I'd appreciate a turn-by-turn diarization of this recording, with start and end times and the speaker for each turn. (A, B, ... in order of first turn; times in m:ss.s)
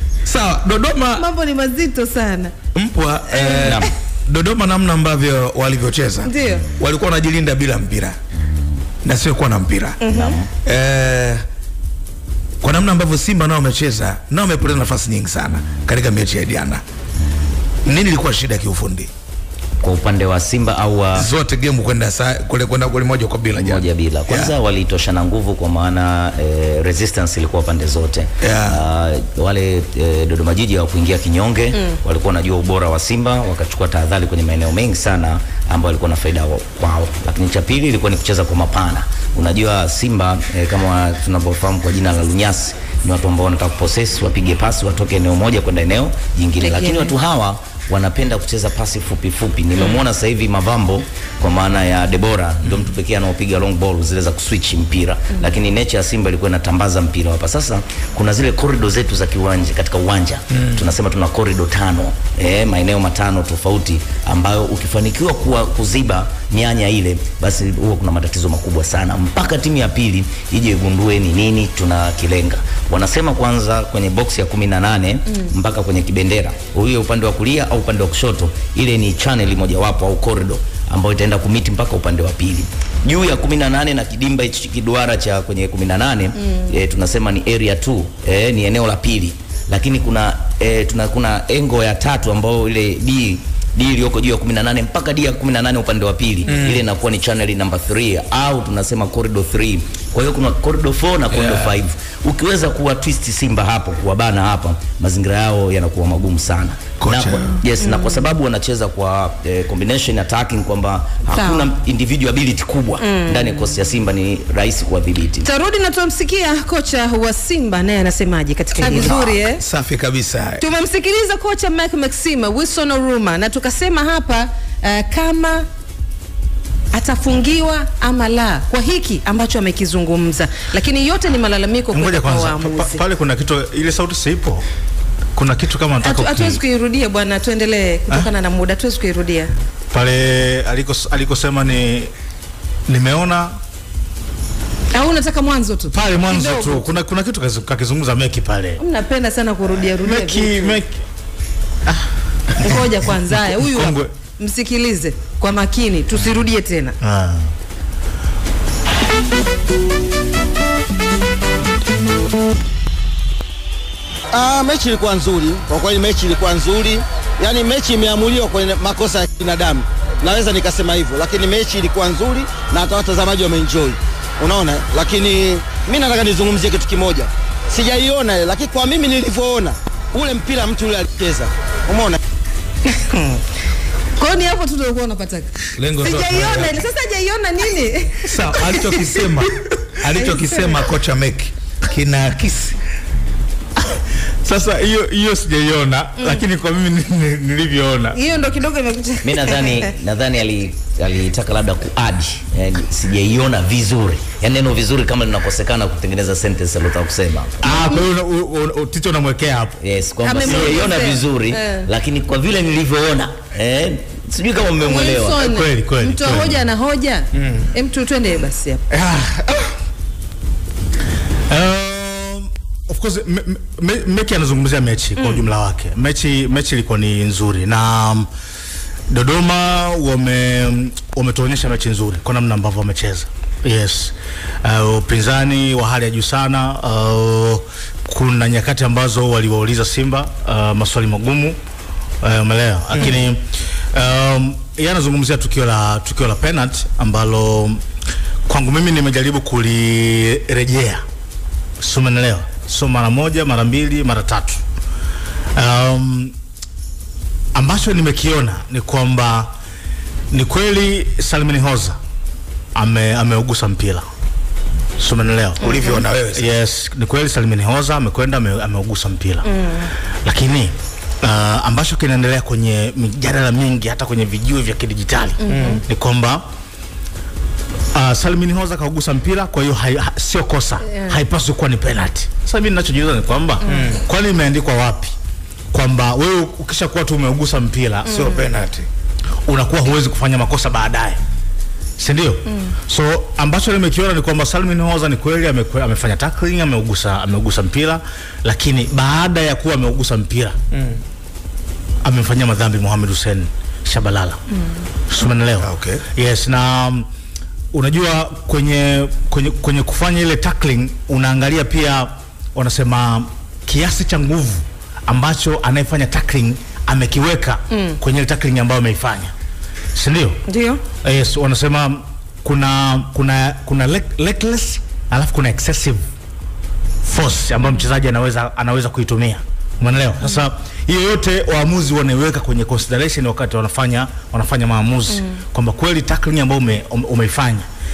0:00.2-0:01.2 A
0:01.1-0:02.5 B
0:02.7-0:08.2 A
0:03.3-0:03.9 B
0:03.6-0:03.9 C
0:06.2-0:06.6 B
0:09.0-0:10.0 A
0:10.0-0:10.4 B
0:10.1-0:10.5 C
0:10.6-0:11.4 A
0:12.6-0:16.8 A
0:17.8-0:19.1 A
0:19.8-0:21.3 C
0:21.1-0:24.5 A
0:23.6-1:55.5 C
0:28.4-0:28.8 A
0:46.6-0:47.1 B
1:36.5-1:36.8 A
1:41.3-1:41.7 A
1:47.0-1:47.6 A
1:47.8-1:48.3 B
1:51.3-1:51.7 B
1:53.0-1:53.6 B
1:55.4-1:59.6 B
1:58.8-2:00.6 A
2:00.6-2:05.6 B
2:06.9-2:13.0 B
2:11.9-2:14.6 D
2:15.3-2:16.6 D
2:16.0-2:19.5 B
2:19.9-2:22.1 D
2:22.9-2:23.6 D
2:24.9-2:26.9 B
2:25.9-2:28.8 D
2:28.8-2:30.8 B
2:30.0-2:31.0 D
2:32.6-2:34.1 D
2:32.6-2:37.0 B
2:37.0-2:37.5 D
2:44.3-3:02.2 E
3:02.8-3:03.4 B
3:04.2-3:09.0 B
3:05.8-3:06.8 A
3:08.2-3:12.8 A
3:10.2-3:10.6 B
3:14.4-3:18.2 D
3:18.1-3:19.7 B
3:19.2-3:27.9 C
3:27.6-3:29.8 D
3:29.8-3:35.4 C
3:30.2-3:31.9 B
3:34.8-3:38.8 B
3:35.4-3:36.6 D
3:38.9-3:39.6 D
3:41.5-3:48.3 D
3:49.1-4:01.6 D
4:02.2-4:03.4 D
4:03.9-4:07.8 D
4:08.5-4:11.0 D
4:11.8-4:14.6 D
4:15.5-4:16.3 D
4:17.5-4:19.5 D
4:20.3-4:22.0 D
4:22.7-4:24.1 D
4:25.0-4:25.7 D
4:25.6-4:26.5 A
4:25.6-4:26.0 B
4:26.3-4:29.5 D
4:29.4-4:29.9 B
4:30.2-4:36.4 D
4:35.4-4:35.8 B
4:35.5-4:35.8 A
4:37.9-4:45.1 D
4:40.9-4:41.2 B
4:43.6-4:44.0 A
4:45.7-4:48.2 D
4:48.1-4:48.4 B
4:48.1-4:48.9 A
4:49.4-4:51.2 D
4:52.0-5:00.6 D
5:00.7-5:01.0 A
5:02.0-5:04.4 D
5:05.1-5:07.1 D
5:05.6-5:06.0 A
5:07.7-5:19.3 D
5:17.7-5:18.0 B
5:19.9-5:20.4 D
5:20.5-5:20.8 B
5:21.0-5:26.0 D
5:27.0-5:37.7 D